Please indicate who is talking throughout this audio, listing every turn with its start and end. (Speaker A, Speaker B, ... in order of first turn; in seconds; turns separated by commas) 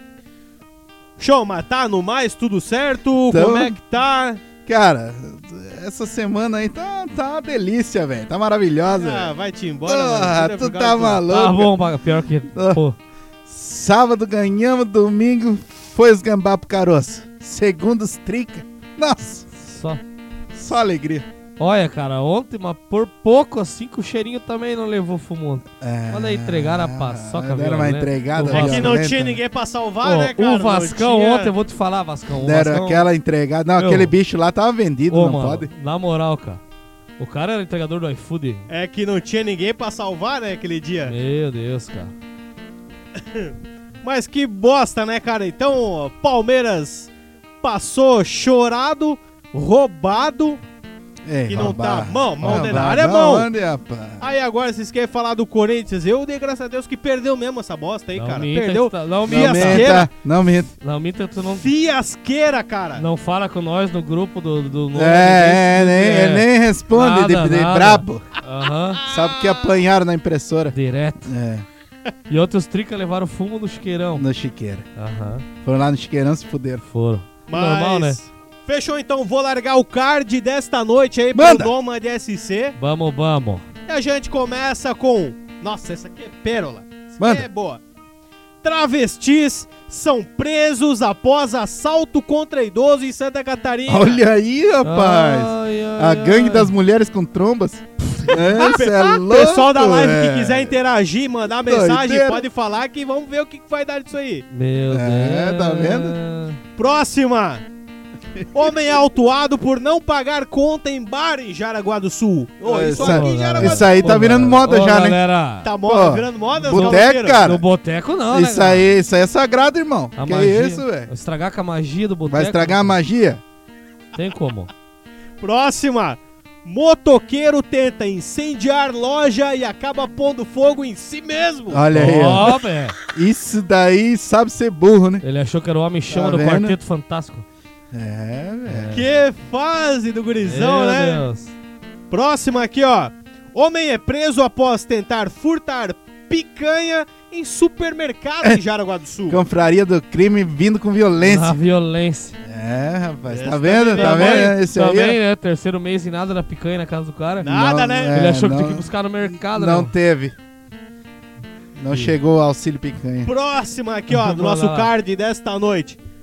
Speaker A: 1.2-4.4, Speaker B: 3.3-3.8, Speaker B: 4.7-9.3, Speaker A: 8.9-11.3, Speaker B: 9.9-11.8, Speaker C: 11.3-13.0, Speaker B: 12.5-12.8, Speaker B: 13.5-19.5, Speaker C: 19.5-20.0, Speaker B: 20.5-21.3, Speaker C: 21.6-28.9, Speaker B: 25.8-29.4, Speaker A: 28.5-31.5, Speaker C: 30.0-33.1, Speaker B: 32.4-35.7, Speaker C: 33.8-34.1, Speaker C: 35.1-36.6, Speaker C: 37.2-38.7, Speaker A: 38.7-41.1, Speaker C: 41.1-42.1, Speaker A: 43.2-50.6, Speaker B: 51.2-54.3, Speaker A: 51.5-53.5, Speaker A: 54.2-60.1, Speaker C: 58.1-60.1, Speaker B: 59.3-60.7, Speaker C: 60.8-61.7, Speaker A: 61.5-63.0, Speaker C: 63.0-69.0, Speaker B: 64.9-68.3, Speaker A: 68.9-69.8, Speaker B: 69.1-71.7, Speaker C: 70.7-71.3, Speaker C: 72.3-74.2, Speaker B: 74.2-74.9, Speaker C: 75.0-75.5, Speaker B: 75.6-76.8, Speaker C: 76.9-78.2, Speaker A: 77.5-82.8, Speaker B: 81.3-81.7, Speaker C: 82.8-83.7, Speaker A: 83.9-87.8, Speaker B: 87.2-87.5, Speaker A: 88.6-94.2, Speaker B: 93.9-100.8, Speaker C: 94.8-96.7, Speaker A: 98.3-104.5, Speaker B: 101.7-102.4, Speaker C: 104.5-106.6, Speaker B: 104.9-106.2, Speaker A: 106.8-107.7, Speaker A: 108.5-114.2, Speaker B: 112.6-115.2, Speaker C: 113.0-115.7, Speaker A: 115.6-117.4, Speaker B: 115.8-117.7, Speaker C: 116.6-118.9, Speaker B: 118.3-121.1, Speaker C: 120.2-123.0, Speaker B: 122.3-123.4, Speaker C: 124.1-124.7, Speaker A: 125.4-132.5, Speaker B: 131.7-135.2, Speaker C: 131.9-133.0, Speaker C: 135.2-137.4, Speaker B: 136.1-136.8, Speaker B: 137.9-139.0, Speaker C: 138.7-139.2, Speaker A: 138.9-141.2, Speaker C: 140.4-141.5, Speaker A: 142.1-149.4, Speaker B: 149.3-151.6, Speaker C: 151.2-152.4, Speaker B: 152.4-155.2, Speaker A: 153.3-154.6, Speaker C: 153.9-157.5, Speaker A: 157.4-158.2, Speaker B: 157.5-160.3, Speaker C: 158.1-159.9, Speaker B: 161.8-163.3, Speaker A: 163.2-166.0, Speaker C: 164.1-164.9